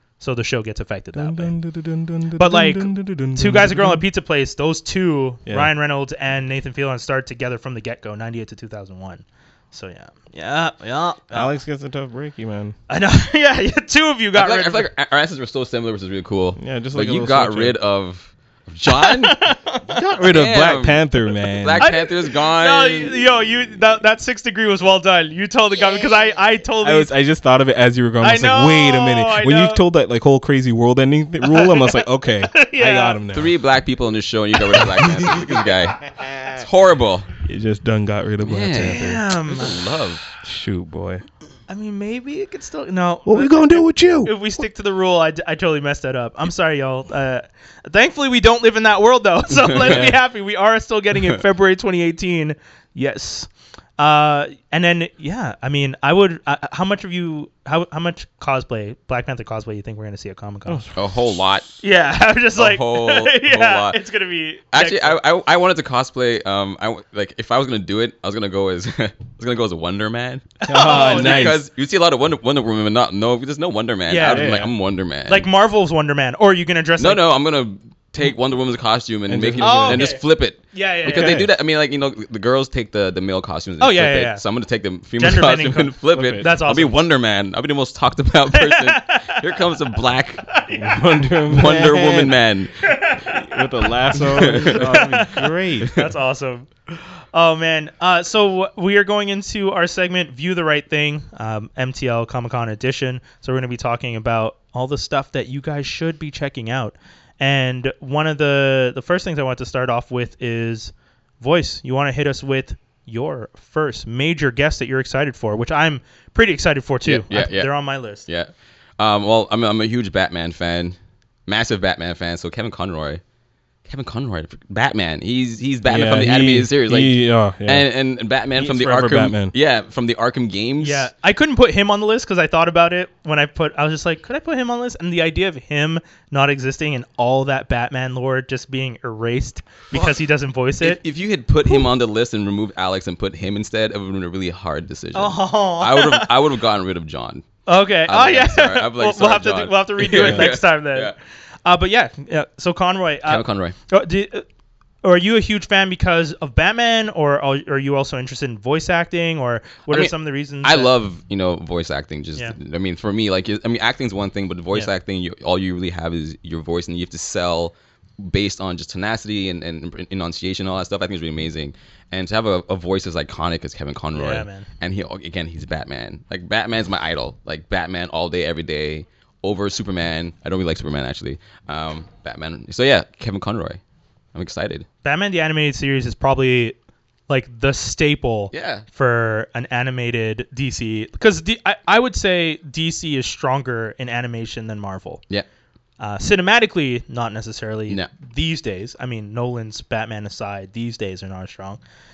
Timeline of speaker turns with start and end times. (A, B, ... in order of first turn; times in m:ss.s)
0:00.2-0:01.5 A
0:01.2-0:04.0 B
0:02.4-0:11.5 A
0:11.3-0:12.8 B
0:12.9-0:14.9 A
0:14.4-0:19.4 C
0:16.6-0:17.8 B
0:18.9-0:19.8 A
0:19.9-0:21.9 B
0:20.2-0:23.3 C
0:21.8-0:27.1 A
0:26.8-0:33.5 B
0:28.2-0:29.8 A
0:31.4-0:33.2 A
0:33.3-0:36.0 C
0:34.8-0:35.5 B
0:36.2-0:36.5 B
0:36.5-0:37.3 C
0:37.4-0:39.3 B
0:38.4-0:40.3 C
0:38.8-0:39.8 A
0:40.4-0:41.2 B
0:41.7-1:00.8 A
0:43.3-0:44.3 B
0:49.7-0:50.1 C
0:49.8-0:50.2 B
1:00.7-1:01.4 B
1:01.0-1:01.7 C
1:01.8-1:05.2 A
1:02.6-1:04.0 C
1:04.7-1:15.5 C
1:10.6-1:11.6 A
1:10.7-1:11.6 B
1:14.1-1:14.6 A
1:14.2-1:14.7 B
1:15.3-1:17.2 A
1:17.0-1:30.5 C
1:19.3-1:20.2 B
1:19.6-1:20.2 A
1:20.7-1:21.4 A
1:21.1-1:21.5 B
1:23.8-1:24.4 A
1:25.2-1:27.0 A
1:26.1-1:26.5 B
1:28.5-1:29.5 A
1:30.7-1:32.4 B
1:31.5-1:32.8 C
1:32.9-1:36.7 A
1:33.2-1:35.9 B
1:34.3-1:35.1 C
1:37.3-1:58.2 A
1:57.0-2:01.0 C
2:01.5-2:03.2 C
2:03.9-2:11.1 C
2:05.8-2:07.9 B
2:08.6-2:09.5 B
2:08.7-2:09.0 A
2:10.8-2:21.0 A
2:19.9-2:20.3 C
2:20.8-2:27.4 C
2:25.2-2:26.3 A
2:27.7-2:34.5 A
2:28.1-2:31.2 C
2:30.1-2:30.6 B
2:33.3-2:33.8 C
2:35.0-2:40.9 A
2:39.9-3:03.8 C
2:54.2-2:54.7 A
3:04.4-3:04.9 C
3:05.0-3:06.8 A
3:07.3-3:15.2 A
3:08.5-3:08.8 C
3:16.0-3:21.8 A